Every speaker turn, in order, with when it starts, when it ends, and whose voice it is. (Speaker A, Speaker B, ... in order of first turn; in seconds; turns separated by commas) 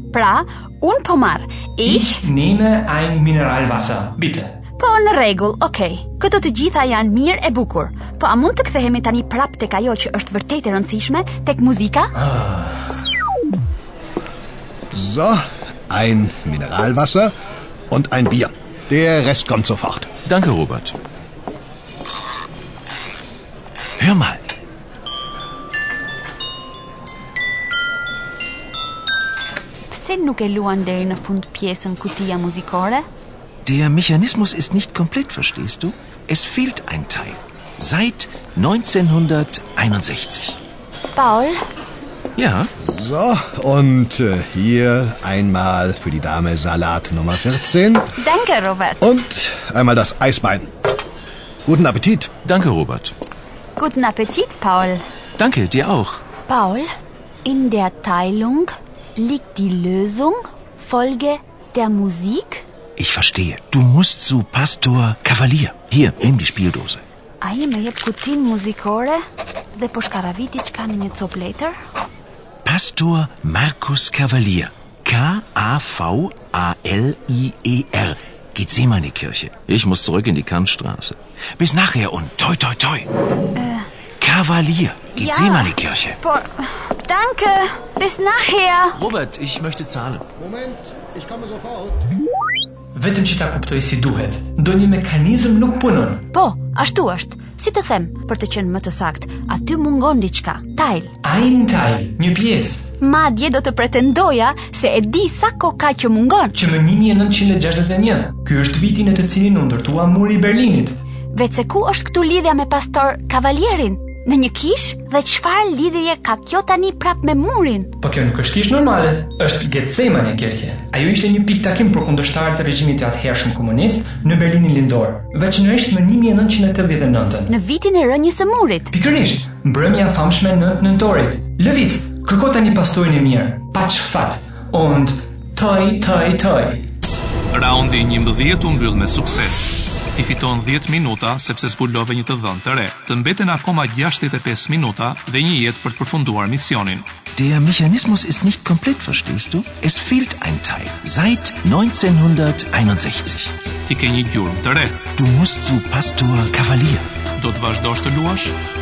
Speaker A: 0.1-2.2, Speaker B: 1.8-4.5, Speaker A: 4.8-12.1, Speaker B: 12.3-12.7, Speaker C: 14.9-17.3, Speaker C: 17.9-20.1, Speaker D: 20.2-21.0, Speaker D: 24.0-24.4, Speaker A: 29.9-33.0, Speaker D: 33.6-40.6, Speaker A: 41.1-41.6, Speaker D: 42.4-42.7, Speaker C: 42.8-48.1, Speaker A: 48.2-49.0, Speaker C: 49.0-50.7, Speaker C: 51.7-52.3, Speaker D: 52.5-53.1, Speaker A: 53.8-55.0, Speaker D: 55.4-56.2, Speaker A: 56.5-56.9, Speaker A: 57.5-62.6, Speaker D: 63.0-67.0, Speaker A: 67.4-69.2, Speaker A: 69.7-71.7, Speaker D: 72.7-83.1, Speaker A: 83.5-83.9, Speaker D: 84.2-86.2, Speaker A: 85.2-89.0, Speaker D: 88.9-90.2, Speaker C: 90.4-92.1, Speaker B: 93.0-96.2, Speaker A: 96.3-101.1, Speaker B: 101.2-102.9, Speaker A: 103.0-106.5, Speaker B: 106.5-111.0, Speaker A: 111.3-117.9, Speaker B: 118.0-127.5, Speaker A: 127.5-128.9, Speaker B: 128.9-136.8, Speaker E: 137.5-147.1, Speaker D: 147.3-153.5, Speaker E: 153.8-155.1, Speaker D: 155.2-157.1, Speaker E: 157.4-158.6